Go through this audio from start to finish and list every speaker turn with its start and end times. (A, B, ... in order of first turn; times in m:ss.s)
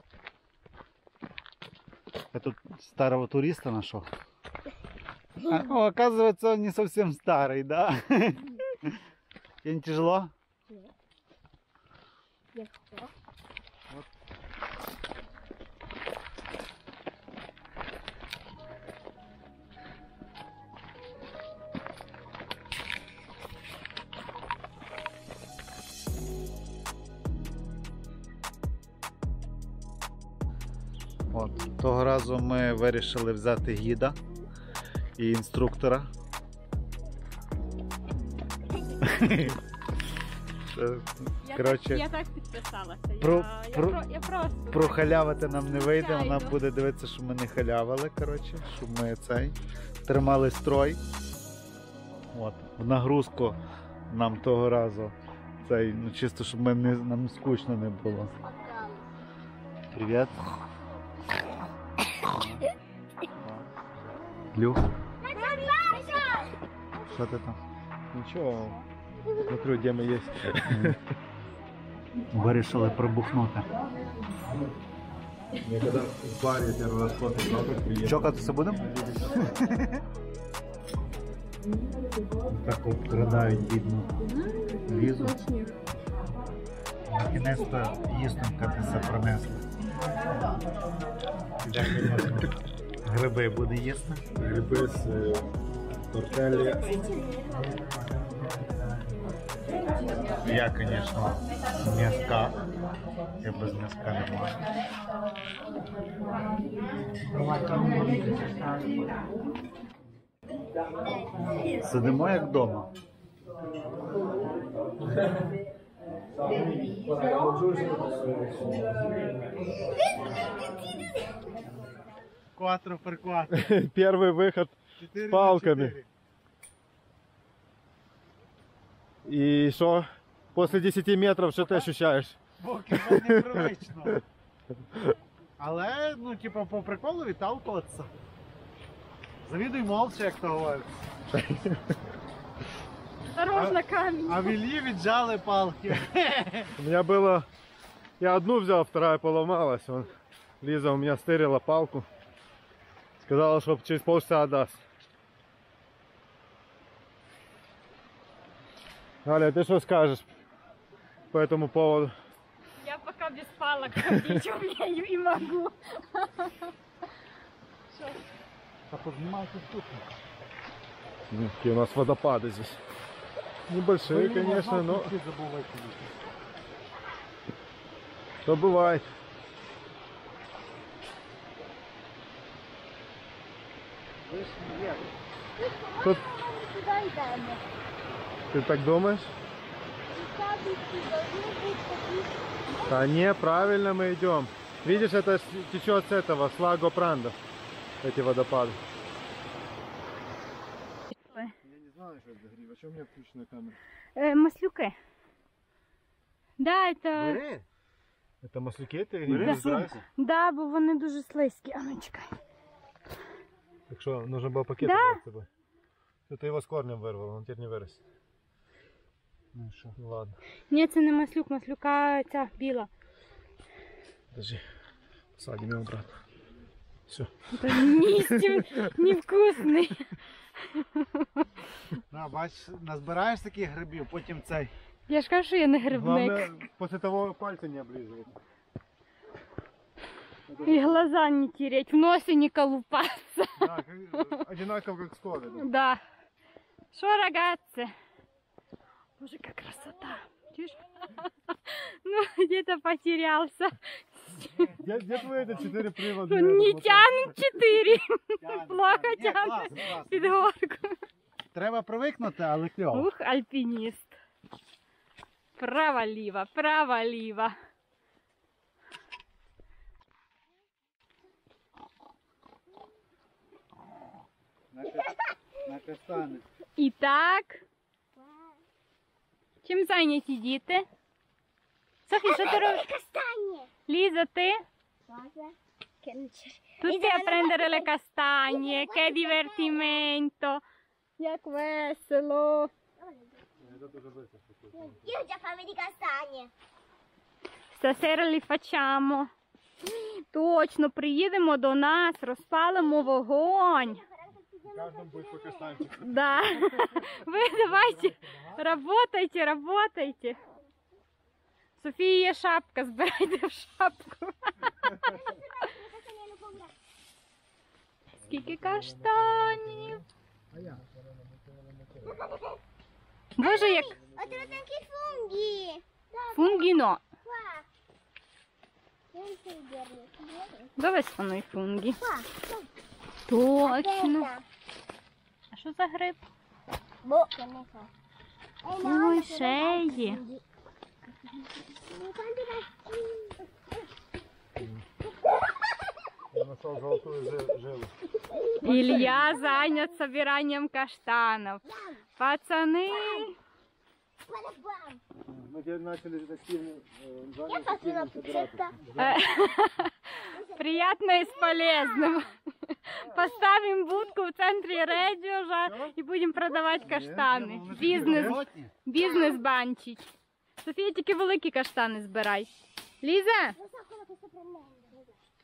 0:02.3-0:04.1 A
0:05.5-0:09.0 A
0:09.6-0:10.3 A
0:12.5-0:13.1 B
0:31.3-0:34.2 A
0:35.2-0:36.1 A
0:39.0-0:39.6 A
0:40.7-0:42.0 A
0:41.4-0:45.1 C
0:43.2-0:44.1 A
0:44.7-0:51.0 A
0:45.8-0:46.6 C
0:52.3-0:58.3 A
0:59.9-1:00.4 A
1:02.3-1:02.7 A
1:03.4-1:03.7 A
1:04.5-1:04.9 A
1:05.2-1:06.5 B
1:05.4-1:06.0 C
1:07.1-1:07.6 A
1:08.1-1:08.8 D
1:09.5-1:11.0 D
1:10.7-1:11.0 A
1:12.3-1:13.7 A
1:15.6-1:18.5 D
1:18.0-1:20.0 A
1:22.5-1:24.2 A
1:24.3-1:25.7 C
1:24.9-1:25.4 A
1:27.1-1:29.6 A
1:31.6-1:34.2 A
1:34.4-1:35.5 D
1:36.1-1:37.0 D
1:40.4-1:42.6 A
1:43.4-1:44.6 A
1:51.8-1:52.9 A
1:57.2-1:58.8 D
2:02.6-2:03.8 A
2:03.5-2:06.0 D
2:05.0-2:06.1 A
2:09.2-2:12.4 D
2:11.6-2:11.9 A
2:12.6-2:14.2 A
2:12.9-2:13.7 D
2:15.6-2:18.1 A
2:19.4-2:20.9 A
2:21.3-2:21.9 D
2:23.4-2:24.6 C
2:23.5-2:26.7 A
2:26.8-2:27.5 D
2:28.2-2:32.1 D
2:33.2-2:34.8 D
2:39.2-2:40.3 D
2:41.3-2:42.1 D
2:42.8-2:46.7 C
2:44.0-2:44.4 D
2:47.9-2:48.2 C
2:48.9-2:50.1 A
2:51.3-2:52.8 D
2:53.7-2:55.1 D
2:54.0-2:56.1 A
2:58.4-2:59.1 D
3:04.2-3:05.1 A
3:05.6-3:07.6 C
3:08.5-3:09.3 D
3:10.1-3:12.3 C
3:12.9-3:17.4 D
3:18.0-3:18.8 D
3:21.2-3:21.5 C
3:21.6-3:23.8 D
3:24.2-3:25.0 C
3:26.6-3:27.4 C
3:27.2-3:27.7 A
3:28.4-3:30.0 D
3:29.3-3:30.0 A
3:30.2-3:32.3 C
3:33.9-3:35.5 D
3:34.8-3:35.2 C
3:36.3-3:38.0 D
3:39.5-3:40.0 A
3:40.0-3:40.4 D
3:40.7-3:42.9 C
3:44.3-3:44.6 D
3:45.4-3:46.2 D
3:47.1-3:49.0 D
3:47.5-3:51.5 C
3:52.1-3:54.7 A
3:55.1-3:56.5 C
3:55.9-3:58.4 D
4:00.5-4:00.9 A
4:00.5-4:01.0 D
4:00.6-4:03.7 C
4:03.6-4:05.7 D
4:05.6-4:06.0 C
4:06.9-4:07.9 C
4:09.2-4:14.7 C
4:14.6-4:15.8 A
4:14.8-4:17.5 D
4:16.0-4:21.0 C
4:18.4-4:20.4 A
4:21.5-4:23.1 A
4:22.9-4:24.2 C
4:25.6-4:27.6 C
4:34.7-4:36.4 A
4:36.8-4:37.6 C
4:38.2-4:38.6 B
4:39.6-4:40.9 C
4:42.1-4:42.8 C
4:42.2-4:43.7 B
4:43.9-4:44.6 C
4:45.1-4:45.5 B
4:46.0-4:50.6 C
4:46.8-4:47.9 B
4:48.5-4:50.0 B
4:51.2-4:52.7 C
4:53.0-4:53.4 B
4:53.6-4:55.1 D
4:54.9-4:56.5 B
4:57.7-4:59.3 C
4:59.9-5:04.0 C
5:03.8-5:05.8 B
5:04.7-5:07.0 D
5:06.0-5:10.4 C
5:07.4-5:08.7 A
5:11.8-5:15.2 C
5:15.0-5:16.7 B
5:18.2-5:20.0 C
5:18.2-5:20.0 D
5:20.5-5:22.1 D
5:22.1-5:22.6 B
5:23.4-5:24.0 C
5:23.4-5:26.7 B
5:24.1-5:24.6 D
5:26.3-5:27.0 C
5:27.2-5:27.6 B
5:29.1-5:30.7 B
5:30.8-5:32.0 C
5:32.0-5:32.7 B
5:33.3-5:34.3 C
5:33.6-5:34.4 B
5:35.5-5:36.2 C
5:37.0-5:37.9 B
5:38.6-5:40.4 B
5:38.8-5:40.2 C
5:41.9-5:43.4 B
5:44.6-5:44.9 D
5:46.3-5:47.9 D
5:48.6-5:51.6 C
5:48.6-5:49.4 D
5:49.2-5:49.9 B
5:51.6-5:52.0 B
5:52.2-5:53.4 C
5:52.9-5:53.3 B
5:54.3-5:55.0 B
5:55.3-5:59.2 D
5:57.5-5:58.8 B
5:59.0-6:10.1 C
6:00.3-6:02.3 B
6:03.1-6:04.1 B
6:04.8-6:05.0 B
6:05.6-6:05.9 D
6:06.8-6:08.4 D
6:07.4-6:08.7 A
6:09.0-6:09.4 B
6:10.6-6:12.5 C
6:13.0-6:13.6 C
6:13.6-6:15.1 B